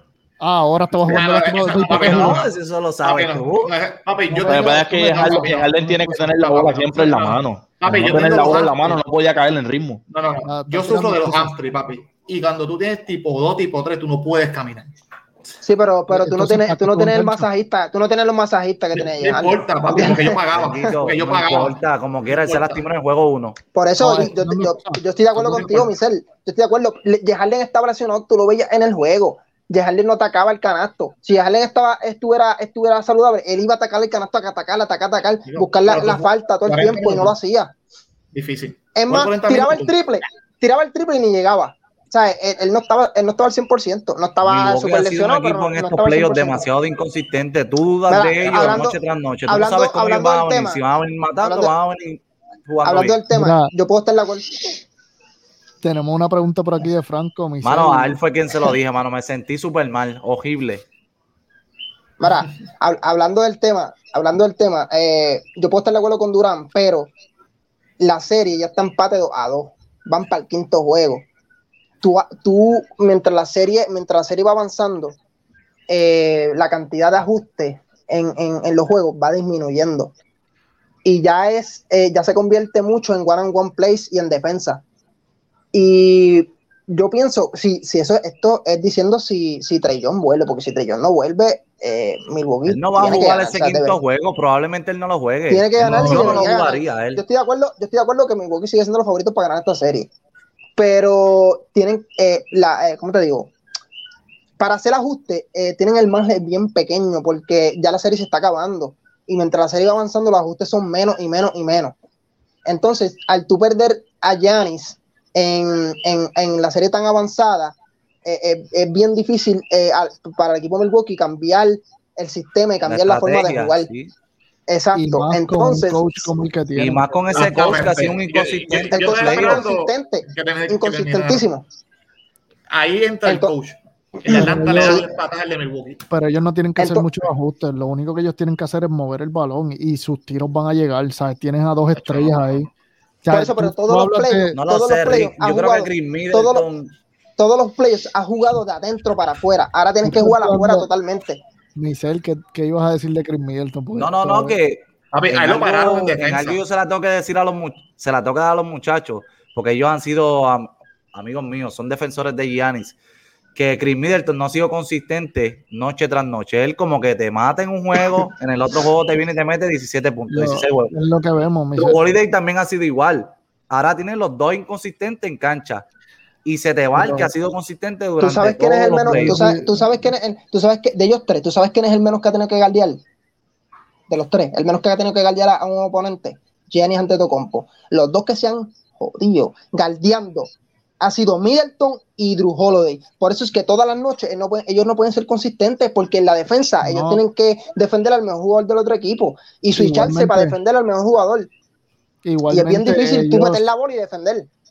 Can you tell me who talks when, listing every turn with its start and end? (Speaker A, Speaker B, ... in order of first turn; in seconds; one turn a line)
Speaker A: 0.4-2.4
Speaker B: 1.0-9.0
Speaker C: 1.9-3.7
Speaker A: 4.3-6.3
Speaker D: 4.5-10.0
Speaker B: 10.1-14.9
Speaker A: 10.4-11.5
Speaker E: 15.6-20.4
Speaker A: 16.1-17.5
Speaker B: 18.9-22.8
Speaker C: 20.5-23.6
Speaker E: 23.7-37.7
Speaker A: 24.0-25.0
Speaker B: 25.4-25.9
Speaker B: 35.5-37.3
Speaker B: 38.3-39.9
Speaker E: 38.9-46.7
Speaker C: 44.4-53.2
Speaker E: 48.1-50.8
Speaker E: 51.4-51.7
Speaker E: 52.8-54.8
Speaker A: 53.3-53.7
Speaker A: 55.8-58.2
Speaker C: 57.6-60.8
Speaker E: 62.2-67.1
Speaker E: 68.0-71.2
Speaker E: 72.0-75.2
Speaker E: 75.9-80.1
Speaker E: 81.0-84.8
Speaker E: 85.7-94.0
Speaker C: 92.7-97.2
Speaker E: 95.5-100.1
Speaker B: 95.8-96.5
Speaker E: 100.8-103.5
Speaker E: 104.6-111.9
Speaker E: 112.7-123.9
Speaker C: 122.8-124.1
Speaker E: 124.7-126.3
Speaker A: 124.9-127.1
Speaker C: 126.8-129.7
Speaker B: 127.3-131.5
Speaker E: 128.9-131.7
Speaker B: 132.7-136.0
Speaker E: 133.2-133.5
Speaker E: 134.2-135.0
Speaker A: 134.3-135.1
Speaker A: 136.1-142.7
Speaker E: 136.8-137.1
Speaker B: 141.9-142.6
Speaker A: 143.2-144.6
Speaker E: 143.3-146.7
Speaker C: 144.6-146.9
Speaker E: 147.4-151.4
Speaker A: 150.0-150.9
Speaker A: 151.8-154.6
Speaker C: 153.9-162.9
Speaker B: 155.1-156.6
Speaker C: 163.5-170.9
Speaker A: 170.3-172.0
Speaker C: 171.8-175.8
Speaker C: 176.4-179.5
Speaker A: 177.0-177.3
Speaker E: 178.2-183.0
Speaker A: 179.1-179.8
Speaker E: 184.1-201.5
Speaker A: 196.8-197.2
Speaker A: 199.7-200.6
Speaker A: 202.2-203.7
Speaker E: 202.5-204.5